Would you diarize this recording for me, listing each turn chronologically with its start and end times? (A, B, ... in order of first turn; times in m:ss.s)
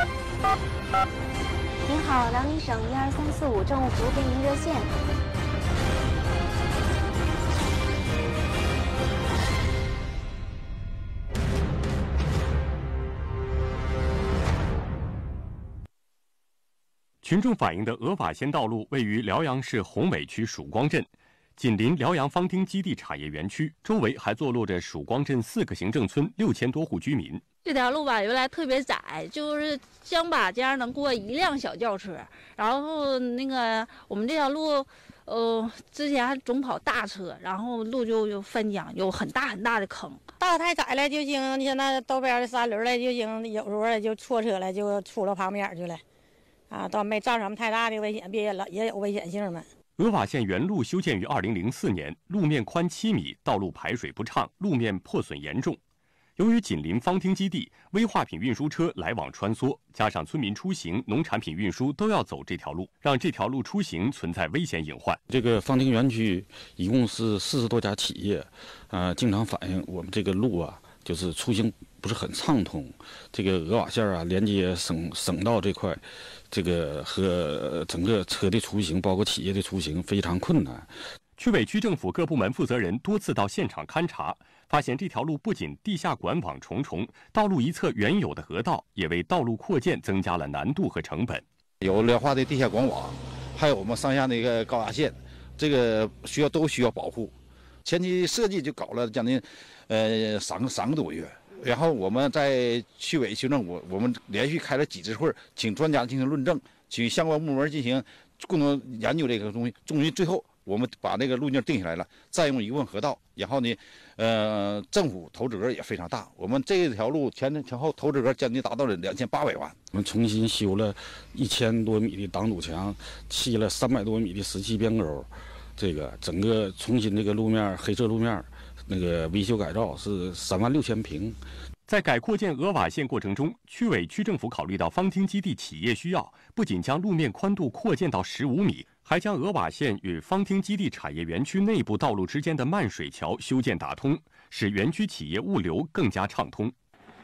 0:01.8-0:04.9 A
0:17.2-0:27.4 B
0:27.6-0:40.2 C
0:40.4-0:46.0 D
0:46.7-0:49.6 D
0:50.0-0:55.8 B
0:56.4-1:05.2 B
1:05.3-1:20.9 E
1:21.4-1:31.4 B
1:31.8-1:37.3 F
1:37.8-1:59.8 F
1:59.9-2:11.4 E
2:11.9-2:26.7 B